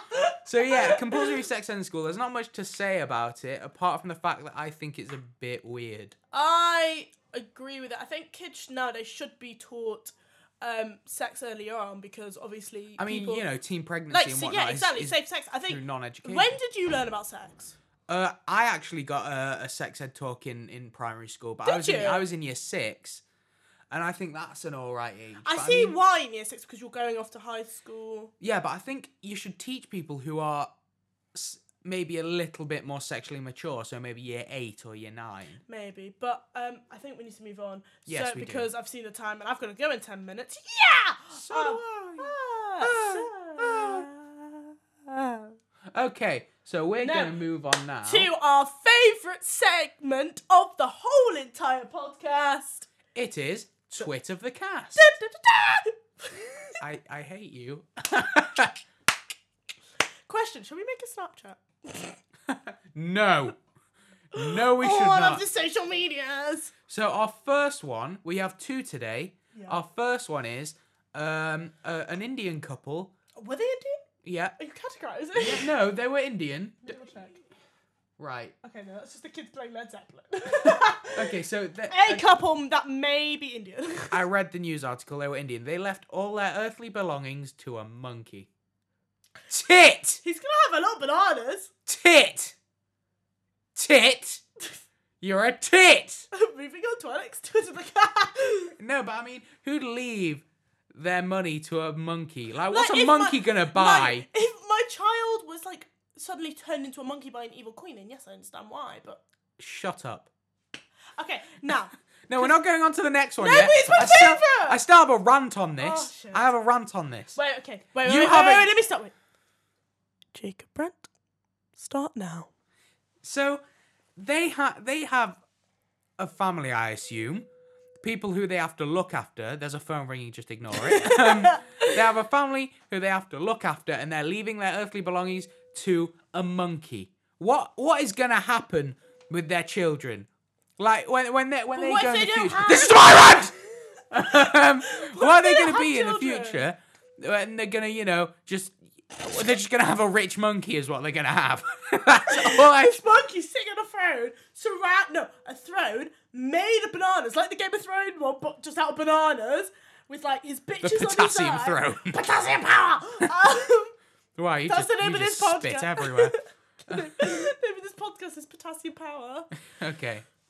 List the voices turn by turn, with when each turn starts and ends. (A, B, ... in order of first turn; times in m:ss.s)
0:00.1-0:01.4 A
0:00.4-0:06.2 B
0:06.3-0:13.5 A
0:13.0-0:16.5 B
0:14.1-0:17.8 A
0:18.1-0:23.2 B
0:21.6-0:22.3 A
0:23.9-0:25.9 B
0:25.4-0:28.3 A
0:28.4-0:30.7 B
0:31.3-0:35.6 B
0:35.7-0:45.6 A
0:38.0-0:38.7 B
0:41.3-0:44.1 B
0:45.9-0:48.3 B
0:47.0-0:47.4 A
0:48.0-0:52.9 A
0:53.1-0:55.1 B
0:55.0-0:56.8 A
0:56.8-0:58.8 B
1:00.3-1:02.2 A
1:02.5-1:03.6 B
1:04.3-1:05.4 B
1:04.3-1:06.7 A
1:06.9-1:13.1 B
1:09.5-1:09.8 A
1:13.4-1:14.0 A
1:14.2-1:14.5 B
1:14.6-1:15.7 A
1:15.4-1:17.0 B
1:16.8-1:17.4 A
1:18.2-1:18.5 B
1:18.6-1:24.2 A
1:20.6-1:22.2 B
1:24.1-1:28.5 B
1:29.5-1:30.2 B
1:30.2-1:31.7 A
1:31.8-1:32.6 B
1:33.7-1:34.4 B
1:35.2-1:36.3 B
1:36.3-1:38.7 A
1:38.8-1:44.2 B
1:42.7-1:49.2 A
1:49.6-1:50.3 B
1:51.2-1:52.6 A
1:52.3-1:57.4 B
1:53.4-1:54.8 A
1:55.8-1:56.5 A
1:57.3-1:59.1 A
1:58.0-1:58.7 B
2:00.3-2:01.1 A
2:01.8-2:02.5 A
2:03.2-2:03.6 B
2:04.2-2:05.4 B
2:06.2-2:07.5 B
2:08.0-2:23.6 B
2:10.8-2:12.0 A
2:21.7-2:23.6 A
2:24.1-2:33.0 B
2:24.3-2:26.7 A
2:32.3-2:43.9 A
2:40.8-2:42.4 B
2:44.4-2:46.4 B
2:44.7-2:49.5 A
2:46.9-2:47.3 B
2:49.8-2:50.2 B